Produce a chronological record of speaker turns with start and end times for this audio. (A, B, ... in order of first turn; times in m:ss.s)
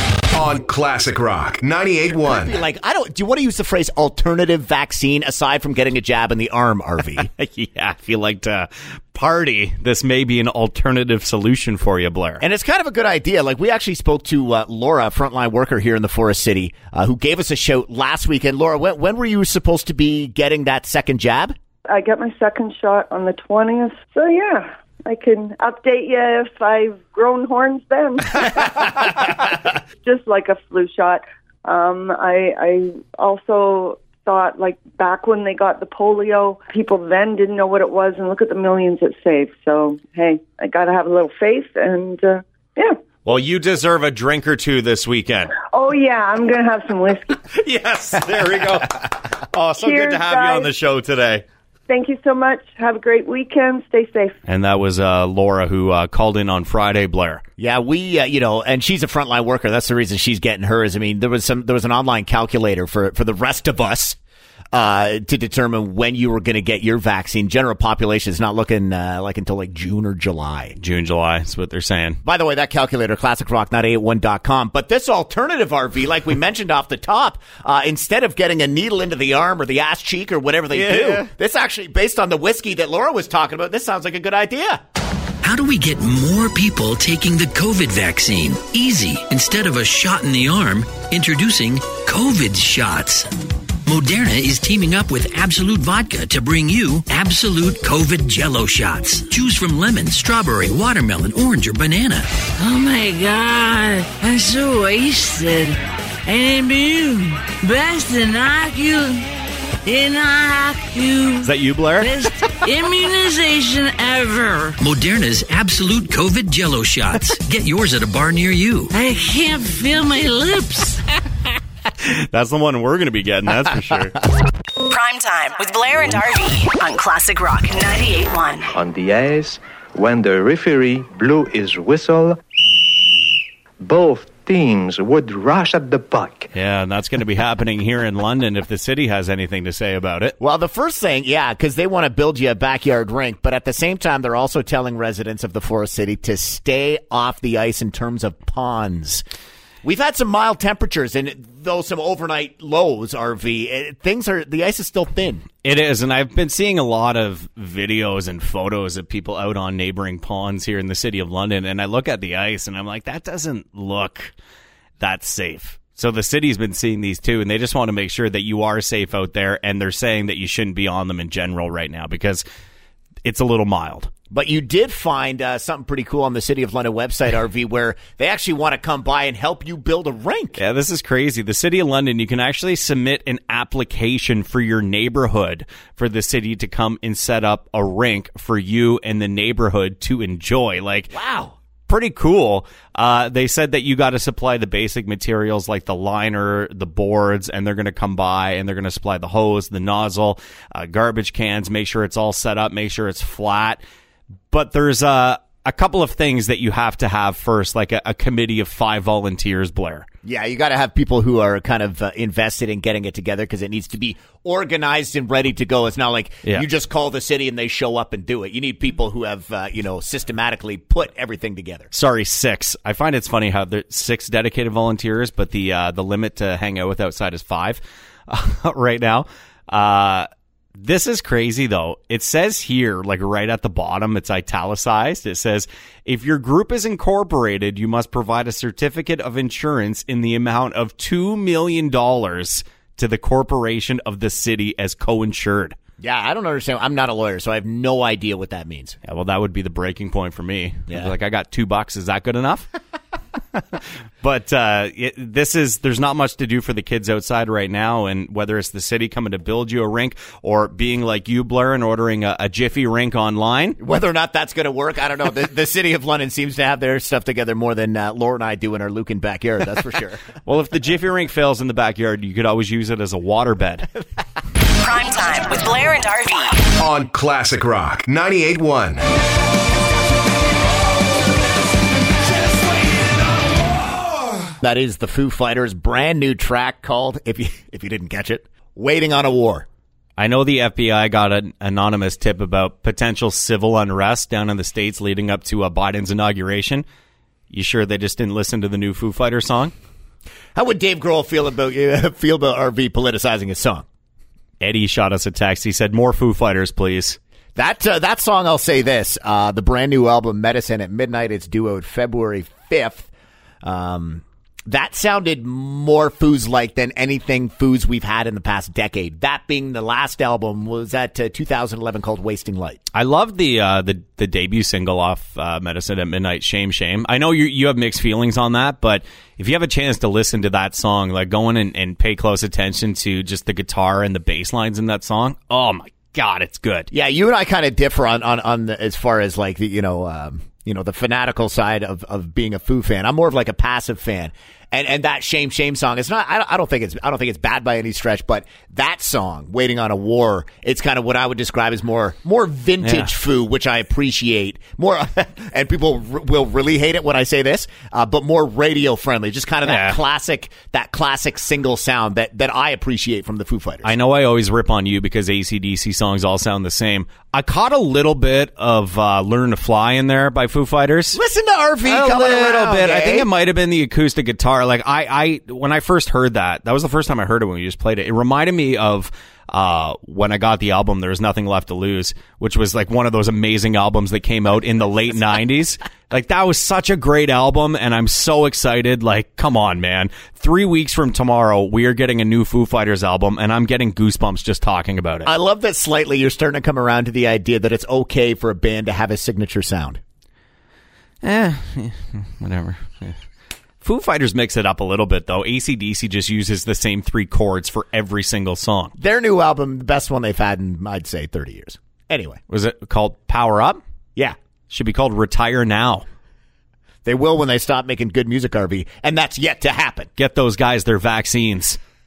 0:00.3-0:02.6 A
0:02.2-0:07.3 B
0:07.2-0:12.4 C
0:12.4-0:21.6 B
0:21.9-0:29.0 D
0:30.0-0:42.9 D
0:43.2-0:45.5 C
0:45.7-0:47.3 D
0:47.5-0:51.4 C
0:49.8-0:50.7 D
0:51.9-0:54.4 D
0:54.5-0:57.4 C
0:57.6-1:04.2 B
1:04.7-1:10.8 B
1:10.8-1:12.2 C
1:12.2-1:24.8 B
1:20.7-1:21.3 C
1:25.4-1:33.3 E
1:33.9-1:42.3 E
1:42.6-1:49.2 F
1:49.8-1:54.8 F
1:51.4-1:52.1 C
1:54.8-1:58.9 E
1:58.9-2:01.1 F
2:02.0-2:04.2 C
2:04.9-2:08.7 G
2:08.7-2:12.4 H
2:13.8-2:16.5 H
2:16.5-2:20.4 C
2:20.4-2:29.2 B
2:29.8-2:35.4 B
2:35.6-2:44.3 C
2:45.0-2:52.4 C
2:53.2-2:54.1 C
2:54.3-3:00.6 B
3:00.6-3:11.1 C
3:11.1-3:11.6 B
3:11.9-3:23.8 C
3:24.5-3:30.1 C
3:30.2-3:41.9 B
3:41.9-4:05.8 C
4:06.0-4:09.0 B
4:09.0-4:12.7 C
4:10.9-4:11.1 B
4:14.2-4:23.8 C
4:23.8-4:30.2 B
4:30.4-4:33.9 C
4:34.8-4:36.6 G
4:36.8-4:39.0 A
4:44.6-4:49.7 B
4:50.2-4:56.8 C
4:57.5-4:59.7 C
5:00.6-5:03.8 B
5:04.6-5:07.2 C
5:07.6-5:13.1 B
5:13.6-5:22.8 B
5:22.9-5:36.9 C
5:36.9-6:03.9 B
5:52.8-5:53.1 C
5:59.6-6:00.0 C
6:03.8-6:11.2 C
6:11.2-6:13.3 B
6:11.8-6:35.3 C
6:35.2-6:40.0 B
6:41.2-6:43.2 C
6:43.8-6:48.9 C
6:49.0-6:52.4 B
6:52.5-6:53.8 C
6:54.7-6:56.0 C
6:57.0-7:00.1 B
7:00.2-7:01.8 C